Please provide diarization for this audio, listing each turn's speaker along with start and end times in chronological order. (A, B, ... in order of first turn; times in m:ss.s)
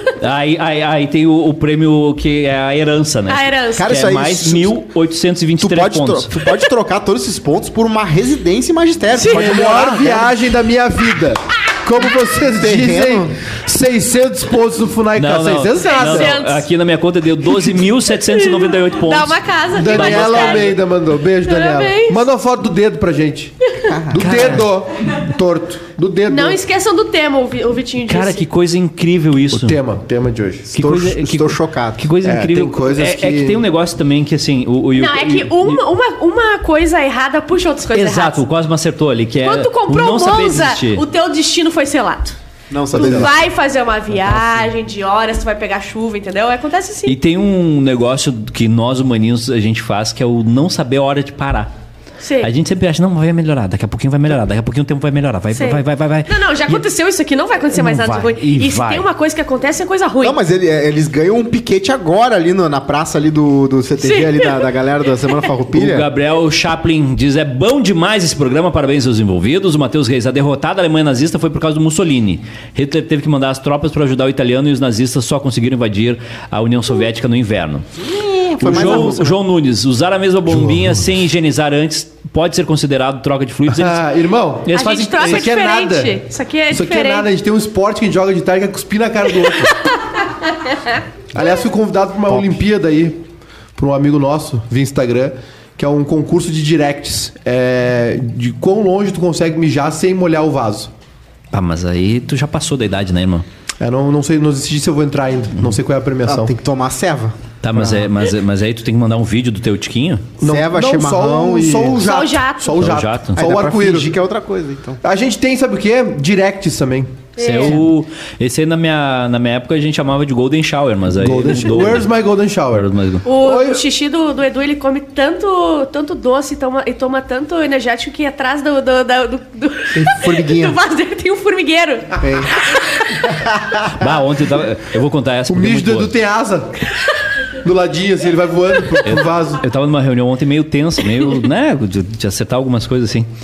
0:00.2-0:06.5 A
0:03.3-0:03.9 B
0:03.8-0:04.8 C
0:05.6-0:10.4 C
0:09.1-0:09.6 B
0:09.2-0:16.4 D
0:12.5-0:13.4 C
0:15.2-0:20.8 A
0:15.9-0:16.7 B
0:18.2-0:20.8 B
0:19.7-0:23.6 D
0:21.4-0:22.2 B
0:23.9-0:24.6 C
0:24.1-0:26.6 D
0:24.2-0:24.7 A
0:26.3-0:28.4 B
0:28.1-0:29.8 A
0:29.5-0:31.1 D
0:30.7-0:35.8 A
0:30.8-0:32.1 C
0:32.2-0:33.7 D
0:35.0-0:38.4 B
0:37.9-0:41.0 A
0:39.4-0:42.4 B
0:42.7-0:43.4 C
0:42.9-0:43.4 D
0:42.9-0:47.2 B
0:47.1-0:51.7 A
0:52.2-0:52.5 B
0:52.4-0:56.8 A
0:55.5-1:00.4 B
0:57.7-0:59.1 A
1:00.2-1:06.1 C
1:04.0-1:04.7 B
1:05.7-1:17.9 A
1:18.0-1:19.4 C
1:18.6-1:24.1 A
1:18.6-1:19.2 D
1:20.5-1:21.0 D
1:23.7-1:29.8 D
1:24.6-1:25.5 A
1:24.7-1:27.3 B
1:31.3-1:33.2 D
1:33.8-1:40.9 D
1:41.5-1:43.4 A
1:43.8-1:46.5 D
1:46.3-1:47.4 C
1:47.6-1:50.3 A
1:50.4-1:54.2 D
1:50.4-1:52.1 C
1:52.0-1:52.9 B
1:52.8-1:53.4 A
1:53.4-1:55.0 C
1:55.0-1:57.2 D
1:57.4-1:57.9 B
1:57.4-2:02.1 A
2:01.1-2:03.8 D
2:02.7-2:03.3 A
2:03.2-2:12.8 B
2:09.9-2:10.8 C
2:12.2-2:12.5 C
2:13.2-2:14.1 C
2:13.9-2:16.1 A
2:15.5-2:16.8 D
2:17.6-2:19.6 D
2:19.0-2:23.3 A